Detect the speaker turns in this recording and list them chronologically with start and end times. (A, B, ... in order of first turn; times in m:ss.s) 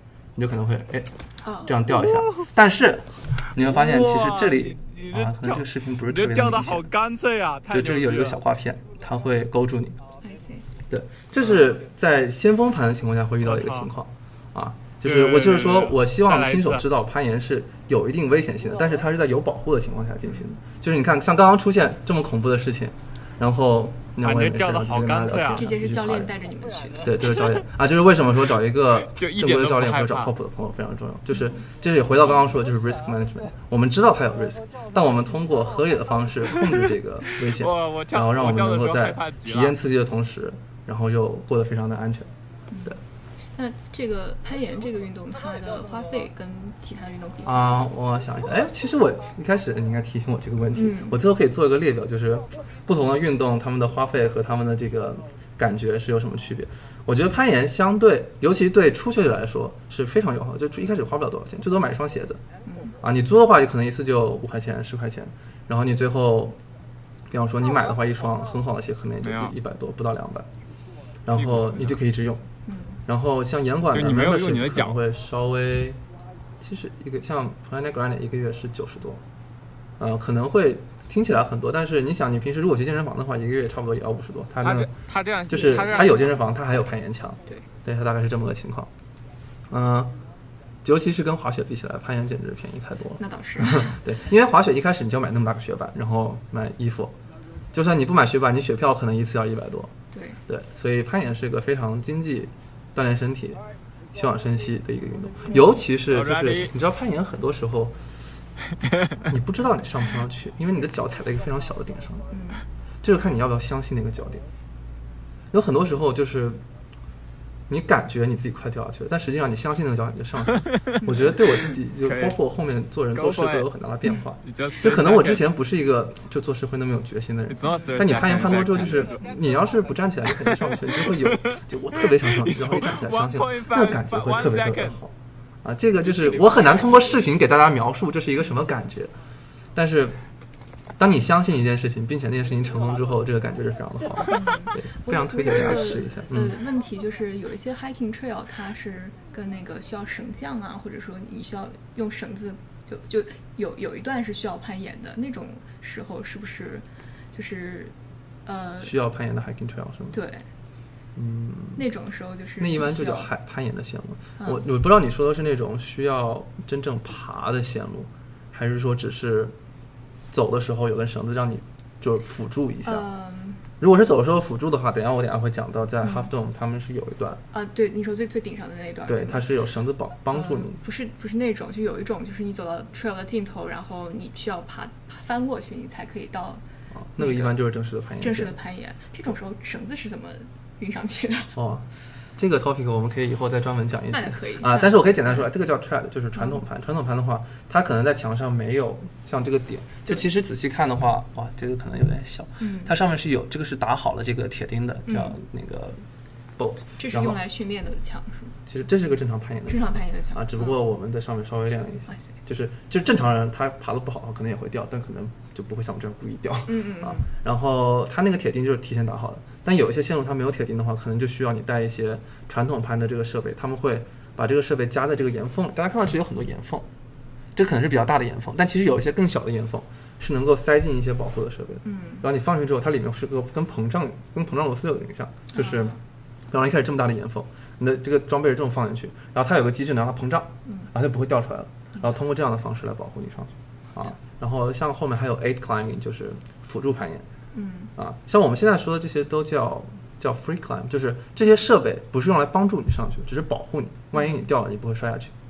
0:00.4-0:06.9 A
0:01.4-0:01.8 B
0:03.6-0:08.4 C
0:07.7-0:10.0 A
0:10.2-0:10.6 B
0:10.9-0:26.3 A
0:13.5-0:13.9 C
0:15.0-0:16.8 C
0:20.2-0:20.6 B
0:24.2-0:25.7 C
0:25.5-0:27.3 B
0:27.0-0:42.3 A
0:28.9-0:30.3 C
0:31.3-0:31.6 B
0:37.4-0:39.7 C
0:42.7-0:43.0 B
0:43.6-0:47.9 B
0:47.4-1:02.4 A
0:50.7-0:51.2 B
1:02.6-1:02.9 B
1:03.0-1:06.6 A
1:07.3-1:10.5 A
1:09.2-1:09.5 C
1:11.2-1:12.4 A
1:11.4-1:11.8 C
1:12.6-1:13.0 B
1:13.0-1:16.0 A
1:13.9-1:14.9 C
1:16.6-1:19.2 A
1:20.0-1:24.9 A
1:24.6-1:26.3 C
1:25.5-1:28.9 A
1:29.7-1:30.1 A
1:30.8-1:37.2 A
1:33.2-1:34.0 B
1:37.7-1:39.9 A
1:40.1-1:40.4 B
1:40.5-1:48.0 A
1:46.1-1:46.7 C
1:48.8-1:49.2 C
1:49.2-1:52.2 A
1:52.3-1:52.6 B
1:53.0-1:54.4 A
1:55.5-1:56.6 A
1:57.7-2:19.1 A
2:00.5-2:01.0 C
2:01.0-2:01.3 B
2:02.0-2:02.4 C
2:03.1-2:03.7 C
2:04.4-2:05.4 C
2:07.5-2:09.1 C
2:07.6-2:07.9 B
2:10.4-2:15.0 C
2:16.1-2:17.1 B
2:19.7-2:20.2 A
2:21.0-2:26.6 A
2:24.3-2:37.9 B
2:38.4-2:39.0 B
2:38.8-2:40.2 A
2:40.1-2:40.4 B
2:41.2-2:41.8 A
2:41.8-2:43.3 B
2:42.6-2:49.5 A
2:50.3-2:53.1 A
2:52.8-2:53.6 B
2:53.8-2:57.4 A
2:56.0-2:56.3 B
2:57.5-2:59.5 B
2:59.1-3:00.8 A
3:00.3-3:06.6 B
3:06.9-3:08.6 A
3:07.2-3:07.6 B
3:08.2-3:11.5 B
3:11.5-3:26.0 A
3:14.1-3:15.5 B
3:16.4-3:16.6 B
3:22.6-3:22.9 B
3:25.1-3:25.4 B
3:26.6-3:27.4 A
3:27.0-3:28.5 B
3:28.6-3:46.8 A
3:29.7-3:30.8 B
3:36.6-3:37.2 B
3:47.5-3:56.0 A
3:51.8-3:52.2 B
3:55.5-3:56.0 B
3:56.5-4:07.2 A
4:00.6-4:00.9 B
4:07.5-4:07.9 B
4:08.0-4:15.3 A
4:14.1-4:14.4 B